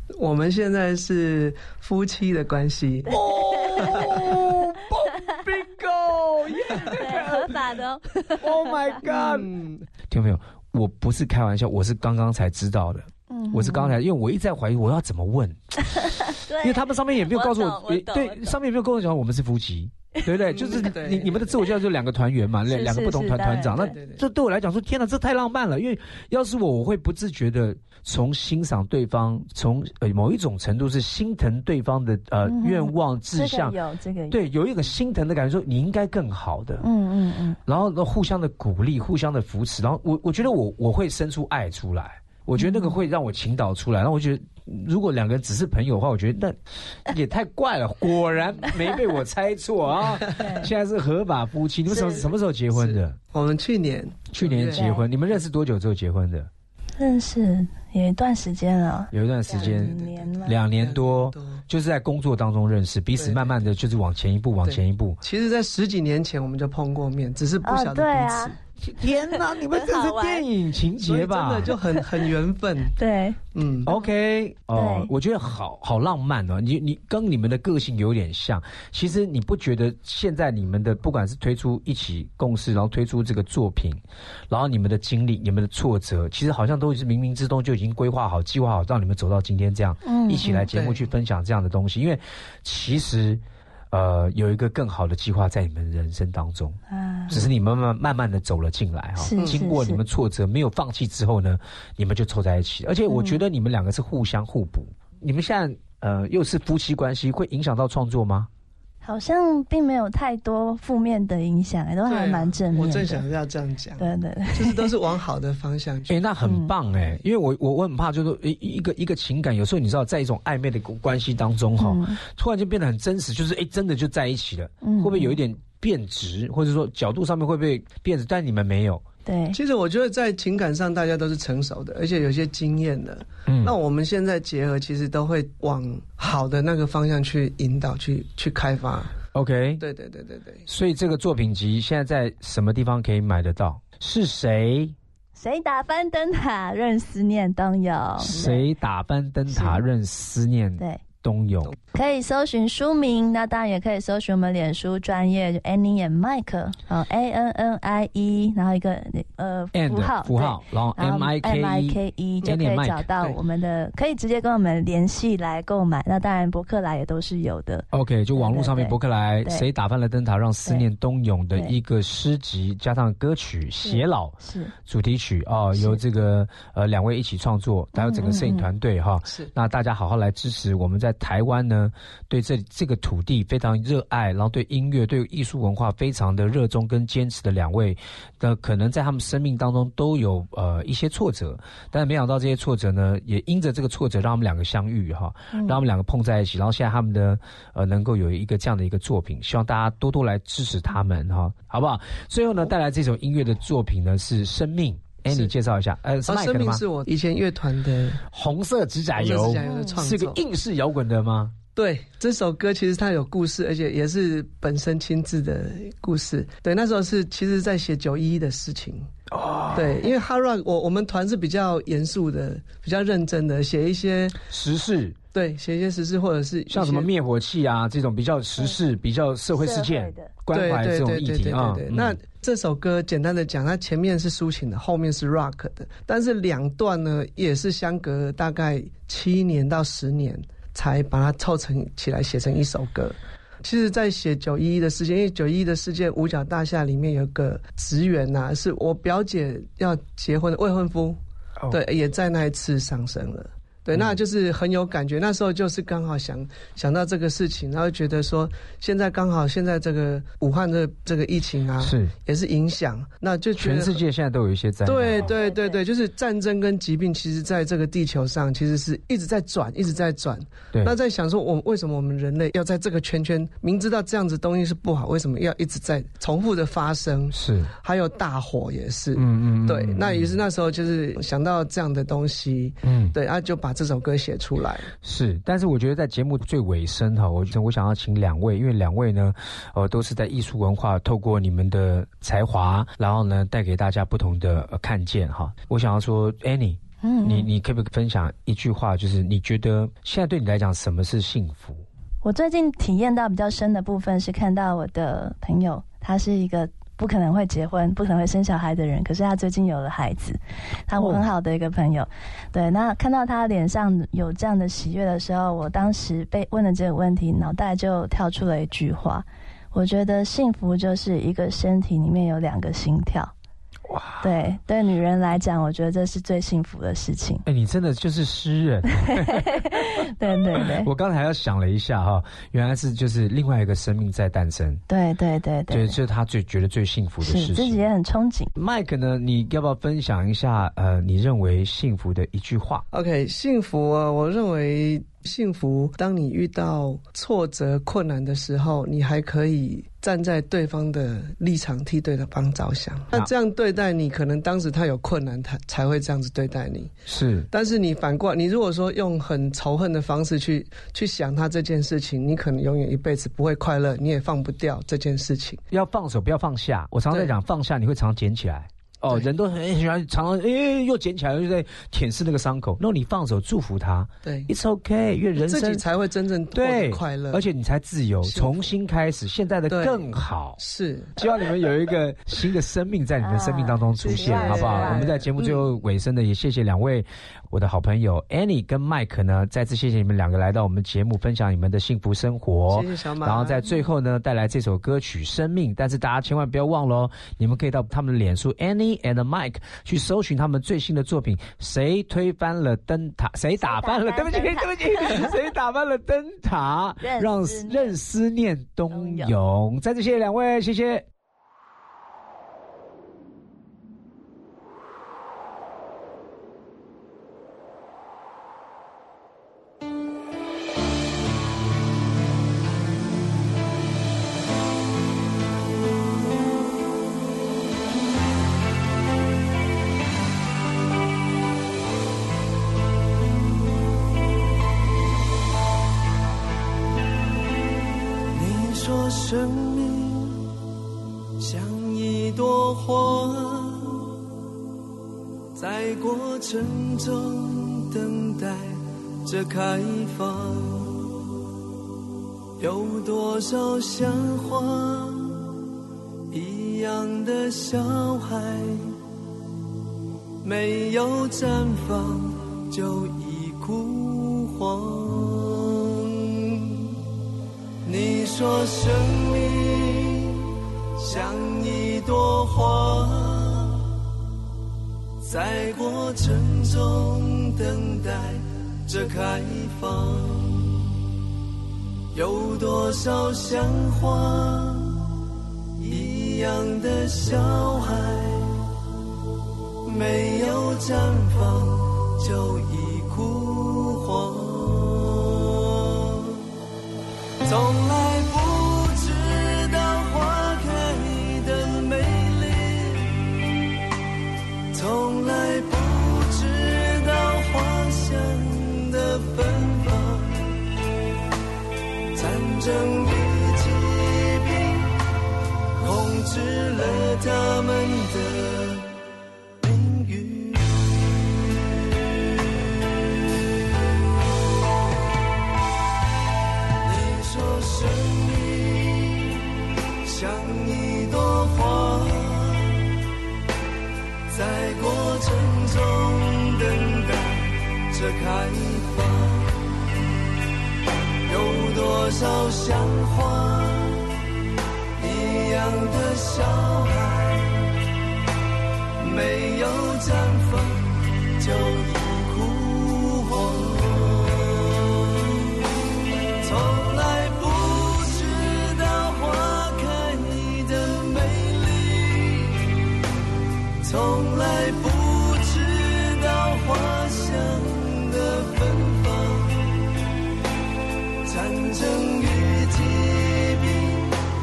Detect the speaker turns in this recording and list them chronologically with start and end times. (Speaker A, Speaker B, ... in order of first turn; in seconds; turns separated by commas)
Speaker A: 0.2-4.1, Speaker B: 3.1-4.1, Speaker C: 3.3-7.6, Speaker B: 6.8-9.0, Speaker C: 8.4-9.5, Speaker A: 9.1-9.8, Speaker C: 10.1-33.8, Speaker B: 13.3-13.9, Speaker B: 15.9-18.6, Speaker A: 20.5-21.5, Speaker B: 22.7-23.9, Speaker A: 23.8-24.2, Speaker B: 32.5-34.4, Speaker C: 34.3-36.9, Speaker B: 36.8-37.6, Speaker C: 37.7-53.2, Speaker B: 42.6-43.0, Speaker B: 50.3-50.7, Speaker B: 51.9-52.3, Speaker A: 52.7-54.9, Speaker C: 54.3-56.5, Speaker B: 54.8-55.0, Speaker B: 57.0-60.5, Speaker C: 59.1-65.2, Speaker A: 59.5-61.6, Speaker A: 63.2-63.6, Speaker A: 64.6-68.6, Speaker B: 67.7-68.5, Speaker C: 68.8-71.7, Speaker B: 69.3-70.5, Speaker A: 71.0-73.0, Speaker B: 73.0-74.1, Speaker A: 73.5-73.9, Speaker C: 73.8-96.8, Speaker B: 74.7-75.1, Speaker B: 90.0-90.7, Speaker A: 90.7-91.0, Speaker B: 96.9-97.3, Speaker C: 97.3-108.5, Speaker B: 99.2-100.0, Speaker B: 103.1-103.4, Speaker B: 109.0-113.2, Speaker A: 112.1-116.2, Speaker B: 114.0-114.9, Speaker C: 116.1-129.0, Speaker B: 116.5-116.7, Speaker B: 121.8-122.2, Speaker B: 124.8-125.4, Speaker B: 129.3-129.6, Speaker A: 129.5-139.2, Speaker C: 133.5-133.8, Speaker C: 139.3-139.8, Speaker A: 139.8-140.7, Speaker C: 140.7-145.0, Speaker B: 145.4-148.6, Speaker C: 148.2-151.7, Speaker A: 148.3-148.6, Speaker B: 149.5-149.8, Speaker B: 151.9-169.7, Speaker C: 159.7-163.1, Speaker C: 167.9-206.8, Speaker B: 173.8-174.7, Speaker B: 175.8-176.0, Speaker B: 177.9-178.7, Speaker A: 179.3-179.5, Speaker A: 206.3-208.2, Speaker C: 208.3-211.6, Speaker A: 209.2-210.4, Speaker B: 209.6-210.0, Speaker A: 211.8-219.1, Speaker C: 219.3-220.1, Speaker A: 219.7-224.4, Speaker C: 224.5-225.2, Speaker A: 225.3-227.1, Speaker C: 226.7-232.2, Speaker B: 229.6-230.3, Speaker A: 230.5-251.2, Speaker A: 251.7-264.0, Speaker C: 253.9-254.2, Speaker C: 261.8-262.1, Speaker C: 263.6-265.3, Speaker A: 264.9-284.9, Speaker B: 265.2-265.8, Speaker C: 277.3-277.7, Speaker C: 279.2-280.4, Speaker C: 282.8-283.1, Speaker C: 285.0-301.9, Speaker B: 297.0-297.5, Speaker B: 302.2-323.3, Speaker C: 311.0-311.2, Speaker C: 323.9-324.3, Speaker B: 324.2-327.4, Speaker C: 327.4-334.8, Speaker B: 329.0-330.9, Speaker B: 334.9-336.0, Speaker C: 335.7-337.8, Speaker B: 337.2-338.5, Speaker C: 338.6-342.9, Speaker A: 342.9-356.9, Speaker C: 357.1-357.5, Speaker A: 357.5-365.6, Speaker C: 365.7-375.8, Speaker A: 374.2-374.5, Speaker A: 375.4-377.4, Speaker C: 376.6-380.6, Speaker A: 378.3-378.7, Speaker A: 379.7-380.1, Speaker A: 380.6-381.2, Speaker C: 381.2-411.1, Speaker B: 383.2-385.1, Speaker A: 384.0-385.7, Speaker A: 392.7-393.6, Speaker B: 403.6-405.4, Speaker B: 407.0-408.0, Speaker B: 408.9-409.3, Speaker A: 438.3-440.5, Speaker A: 441.4-444.1, Speaker A: 445.6-451.1, Speaker A: 452.6-455.5, Speaker A: 456.3-459.0, Speaker A: 460.4-466.9, Speaker A: 467.9-474.0, Speaker A: 475.2-480.9, Speaker A: 482.1-485.2, Speaker A: 485.8-488.7, Speaker A: 489.9-496.3, Speaker A: 497.4-503.3, Speaker A: 504.7-510.6, Speaker A: 512.1-515.0, Speaker A: 515.8-519.0, Speaker A: 519.6-521.0, Speaker A: 526.8-529.4, Speaker A: 530.0-532.9, Speaker A: 534.3-539.7, Speaker A: 541.3-544.2, Speaker A: 545.0-547.7, Speaker A: 549.0-555.2, Speaker A: 556.4-562.7, Speaker A: 563.8-569.9, Speaker A: 571.2-574.2